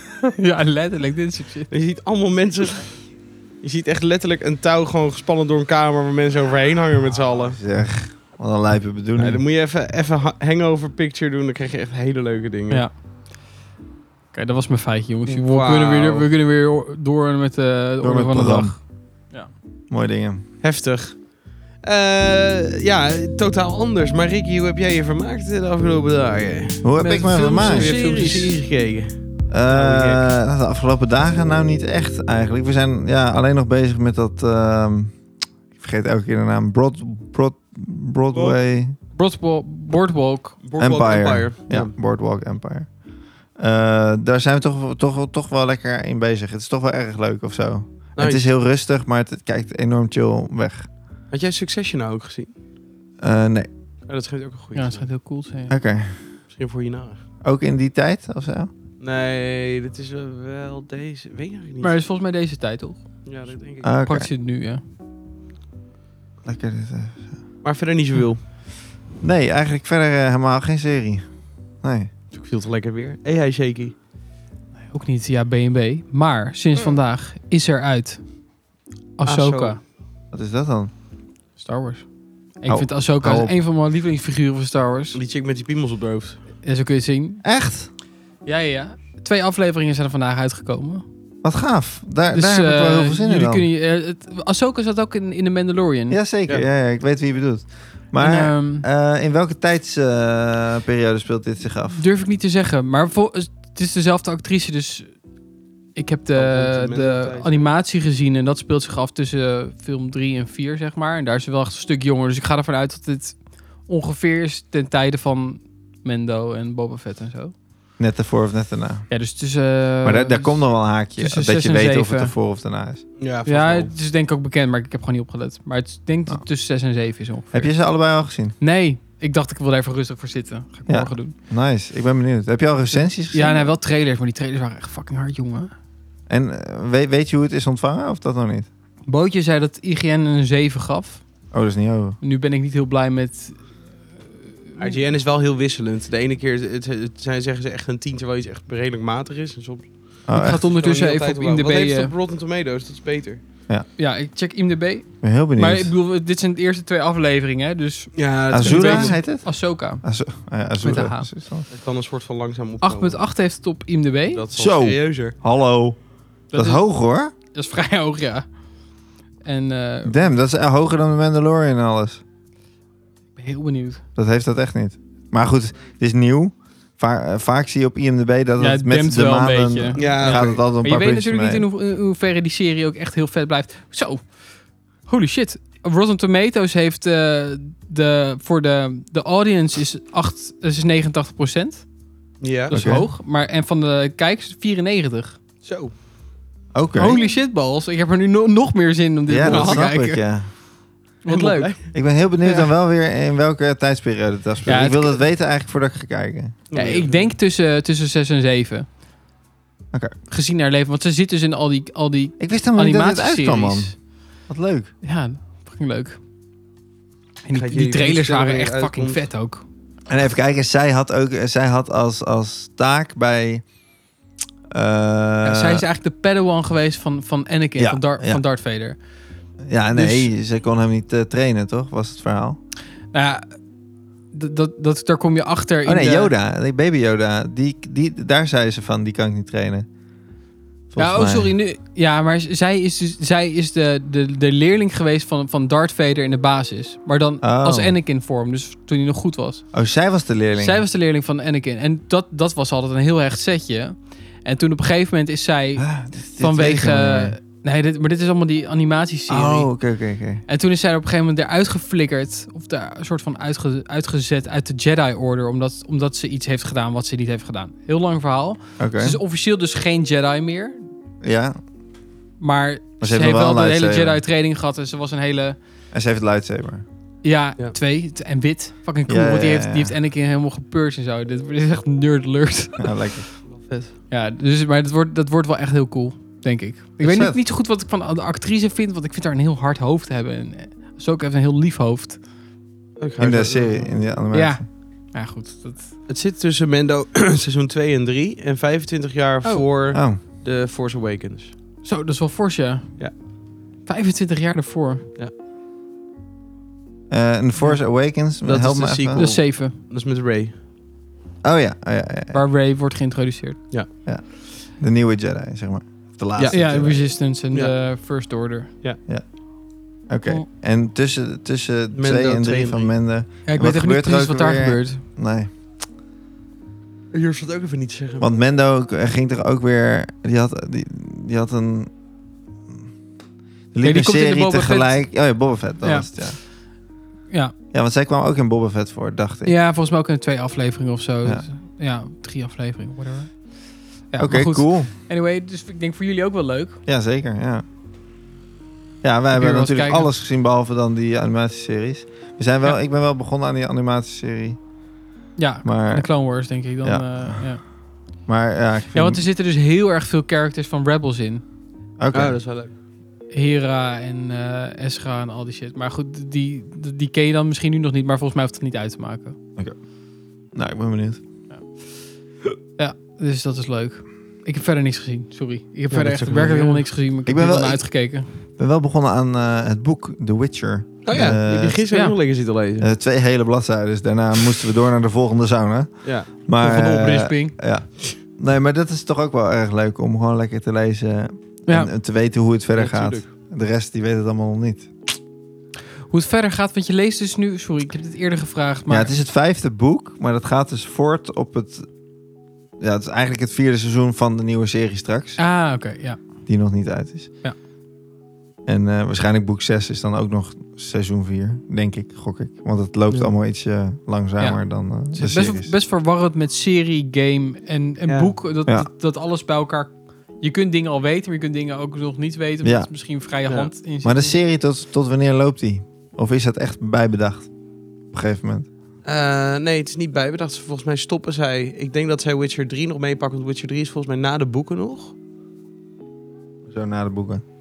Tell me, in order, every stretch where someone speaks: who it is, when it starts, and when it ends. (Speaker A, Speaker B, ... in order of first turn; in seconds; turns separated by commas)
Speaker A: 0.2-1.7, Speaker B: 1.7-3.0, Speaker B: 3.6-7.6, Speaker C: 7.4-9.4, Speaker B: 9.2-12.8, Speaker A: 14.3-19.5, Speaker B: 15.3-16.3, Speaker C: 18.0-18.8, Speaker C: 19.9-20.4, Speaker B: 20.6-21.3, Speaker B: 21.8-30.3, Speaker C: 26.8-27.9, Speaker A: 27.0-28.6, Speaker C: 29.5-35.1, Speaker C: 35.7-39.0, Speaker A: 39.1-40.6, Speaker B: 40.6-41.9, Speaker C: 40.8-42.9, Speaker C: 43.6-50.9, Speaker B: 48.2-48.5, Speaker B: 51.3-52.5, Speaker C: 53.2-53.7, Speaker B: 54.1-55.1, Speaker A: 54.7-55.7, Speaker C: 55.7-56.2, Speaker B: 56.5-57.2, Speaker C: 57.4-58.7, Speaker B: 59.0-61.9, Speaker A: 61.8-63.0, Speaker B: 63.3-63.9, Speaker C: 63.8-64.3, Speaker A: 64.0-64.8, Speaker C: 66.5-67.3, Speaker B: 67.6-68.5, Speaker C: 69.2-71.3, Speaker C: 71.8-72.1, Speaker B: 72.3-73.9, Speaker A: 74.9-78.2, Speaker A: 79.2-79.8, Speaker B: 79.2-79.8, Speaker C: 80.3-80.9, Speaker A: 81.6-82.1, Speaker A: 82.6-85.2, Speaker C: 82.7-83.5, Speaker B: 85.1-86.4, Speaker A: 86.6-87.4, Speaker C: 87.4-87.9, Speaker A: 88.5-91.0, Speaker C: 91.4-93.7, Speaker A: 92.3-96.2, Speaker C: 96.1-102.0, Speaker A: 98.2-98.9, Speaker A: 102.0-105.1, Speaker A: 106.0-113.4, Speaker B: 106.3-107.7, Speaker A: 113.9-117.5, Speaker C: 118.0-119.1, Speaker A: 119.1-120.6, Speaker C: 120.0-123.0, Speaker A: 121.2-122.3, Speaker B: 123.2-123.9, Speaker A: 123.5-127.7, Speaker C: 127.5-128.6, Speaker A: 128.6-131.3, Speaker C: 130.9-133.7, Speaker A: 133.2-135.7, Speaker C: 136.3-138.7, Speaker A: 139.1-141.2, Speaker C: 141.5-142.2, Speaker A: 142.2-143.6, Speaker B: 144.8-149.9, Speaker C: 150.3-150.7, Speaker A: 150.3-152.1, Speaker B: 150.7-153.4, Speaker A: 154.0-160.0, Speaker C: 155.2-155.9, Speaker B: 158.1-159.2, Speaker C: 158.5-161.7, Speaker A: 160.8-161.3, Speaker B: 161.7-163.2, Speaker A: 162.8-164.4, Speaker B: 164.3-165.4, Speaker C: 164.5-166.0, Speaker A: 166.5-166.8, Speaker C: 166.5-167.3, Speaker A: 167.5-168.4, Speaker A: 169.4-170.3, Speaker C: 170.0-172.2, Speaker A: 173.4-174.0, Speaker C: 174.2-181.7, Speaker A: 178.6-184.3, Speaker B: 180.0-180.6, Speaker A: 185.1-191.8, Speaker B: 192.4-192.8, Speaker A: 192.7-195.4, Speaker C: 192.7-193.1, Speaker B: 195.6-195.9, Speaker C: 196.7-197.2, Speaker A: 196.9-200.2, Speaker C: 199.3-200.5, Speaker B: 199.4-199.9, Speaker A: 201.2-202.7, Speaker B: 201.3-201.8, Speaker C: 201.9-206.7, Speaker A: 204.7-205.2, Speaker B: 206.7-207.3, Speaker A: 206.7-208.9, Speaker A: 210.3-213.9, Speaker C: 212.4-213.9, Speaker C: 214.5-214.9, Speaker A: 215.0-216.2, Speaker A: 217.4-219.6, Speaker B: 217.5-219.3, Speaker C: 220.1-223.6, Speaker C: 224.7-225.9, Speaker A: 225.4-229.0, Speaker C: 227.8-228.4, Speaker C: 229.6-232.6, Speaker A: 229.9-230.3, Speaker A: 233.1-233.6, Speaker A: 234.3-236.3, Speaker C: 235.8-239.9, Speaker C: 240.9-241.5, Speaker A: 241.0-249.7, Speaker C: 247.4-247.9, Speaker C: 249.7-250.8, Speaker A: 250.6-259.7, Speaker C: 255.8-257.4, Speaker C: 259.3-260.4, Speaker A: 260.5-270.8, Speaker C: 268.8-269.2, Speaker C: 271.2-271.6, Speaker A: 272.4-275.6, Speaker C: 273.0-274.2, Speaker C: 275.9-276.9, Speaker A: 277.2-282.9, Speaker C: 279.1-279.9, Speaker C: 282.8-283.3, Speaker B: 283.5-283.9, Speaker A: 284.1-292.2, Speaker C: 287.0-287.4, Speaker B: 293.0-293.9, Speaker C: 293.2-294.6, Speaker A: 294.3-295.9, Speaker B: 296.1-301.5, Speaker C: 299.9-300.2, Speaker A: 301.8-303.1, Speaker A: 303.9-305.1, Speaker C: 307.1-309.3, Speaker B: 308.4-310.6, Speaker A: 309.1-309.8, Speaker C: 311.4-312.4, Speaker A: 312.3-313.7, Speaker C: 314.1-317.1, Speaker A: 316.5-318.7, Speaker C: 320.1-325.5, Speaker B: 321.9-322.9, Speaker A: 323.4-325.0, Speaker B: 327.1-328.3, Speaker C: 328.2-331.9, Speaker C: 333.7-336.4, Speaker A: 333.8-335.1, Speaker A: 335.8-336.6, Speaker C: 337.7-339.6, Speaker A: 339.4-346.8, Speaker C: 344.2-344.9, Speaker C: 346.9-347.6, Speaker C: 349.0-354.6, Speaker A: 349.3-350.1, Speaker A: 355.4-357.6, Speaker C: 355.6-356.1, Speaker C: 356.8-357.5, Speaker C: 358.3-359.2, Speaker A: 358.9-361.4, Speaker C: 362.0-362.4, Speaker B: 362.1-362.7, Speaker A: 363.3-369.4, Speaker C: 370.5-371.2, Speaker A: 372.8-378.3, Speaker B: 375.9-376.9, Speaker C: 377.3-377.8, Speaker C: 378.6-381.8, Speaker B: 381.1-382.9, Speaker A: 381.9-382.2, Speaker C: 382.8-394.9, Speaker B: 386.0-386.3, Speaker A: 386.6-387.6, Speaker B: 392.7-393.3, Speaker A: 396.1-399.1, Speaker C: 398.9-401.9, Speaker C: 402.8-405.4, Speaker A: 405.4-406.2, Speaker C: 406.4-407.3, Speaker C: 408.7-415.7, Speaker A: 414.4-424.4, Speaker B: 418.1-418.3, Speaker C: 422.6-422.9, Speaker C: 424.0-427.5, Speaker C: 428.1-428.7, Speaker B: 429.1-435.1, Speaker C: 436.7-437.4